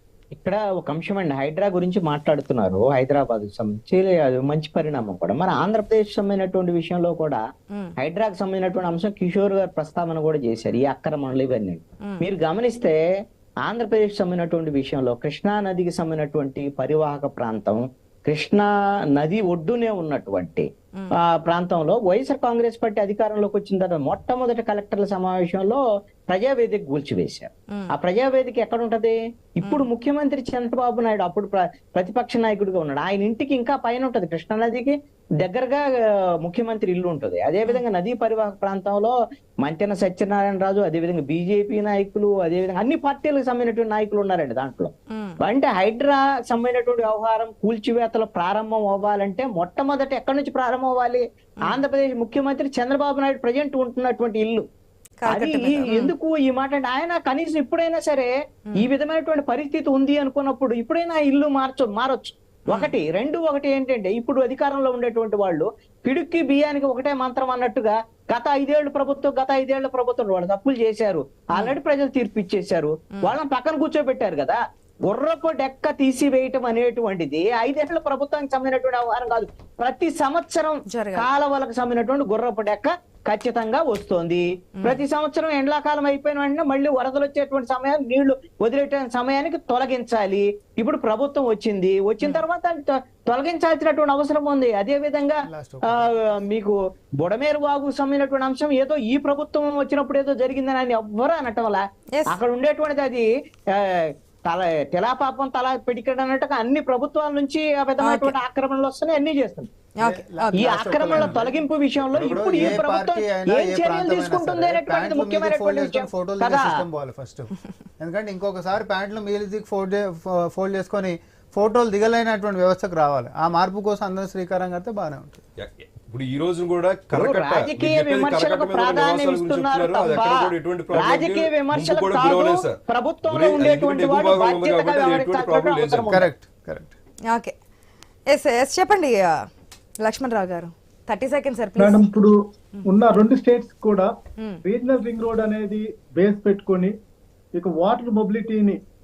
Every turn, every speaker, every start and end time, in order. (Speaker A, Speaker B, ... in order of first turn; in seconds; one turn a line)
Speaker A: 0.3-7.4
Speaker A: 8.0-13.0
Speaker A: 13.6-20.7
Speaker A: 21.2-54.6
Speaker B: 45.1-45.4
Speaker B: 55.2-56.1
Speaker A: 55.3-109.7
Speaker B: 80.9-81.3
Speaker C: 95.4-96.3
Speaker B: 108.0-108.3
Speaker B: 110.0-111.4
Speaker C: 110.0-125.4
Speaker A: 110.5-116.7
Speaker D: 112.1-112.8
Speaker D: 125.6-136.2
Speaker A: 127.1-136.3
Speaker C: 136.1-136.9
Speaker B: 137.3-137.6
Speaker B: 138.3-139.4
Speaker B: 140.0-142.1
Speaker E: 141.8-144.1
Speaker E: 144.6-146.9
Speaker E: 147.5-148.8